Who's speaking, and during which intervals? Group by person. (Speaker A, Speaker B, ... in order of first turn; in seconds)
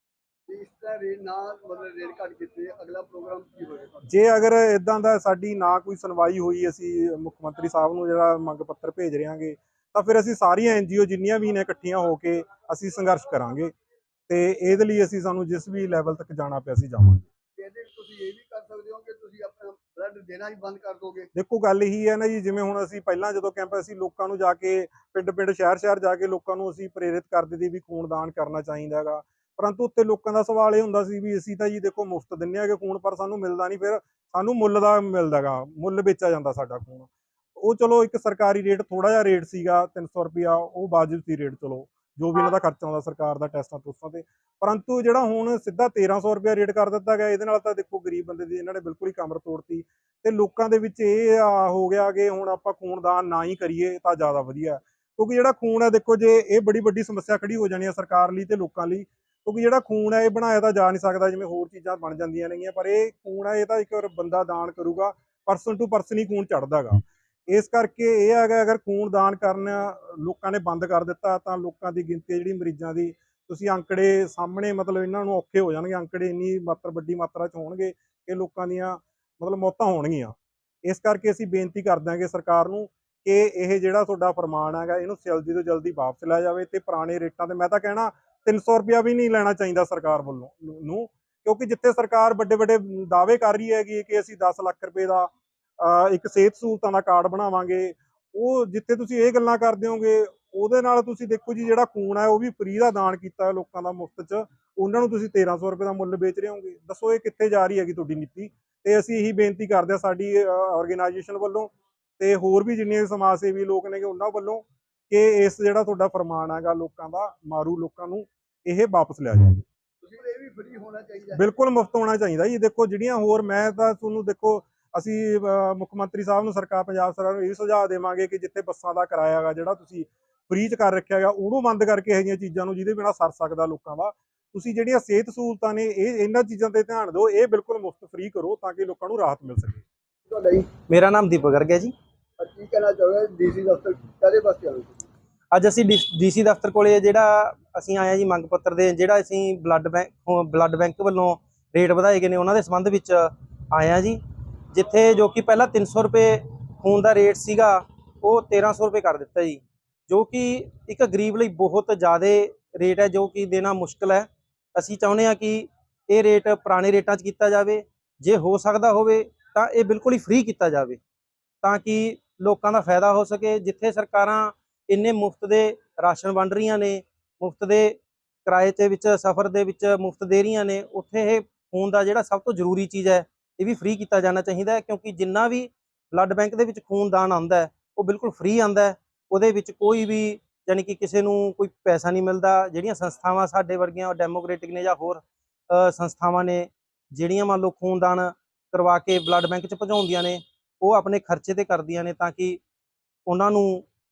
Speaker A: 0.5-4.0, 17.6-21.3, 120.0-121.4, 140.3-140.7, 142.4-145.1
Speaker B: 4.0-13.7, 14.3-17.2, 21.3-119.6, 121.3-139.8
Speaker C: 140.9-141.9, 145.5-154.2, 154.7-171.0, 171.6-202.6, 203.2-203.8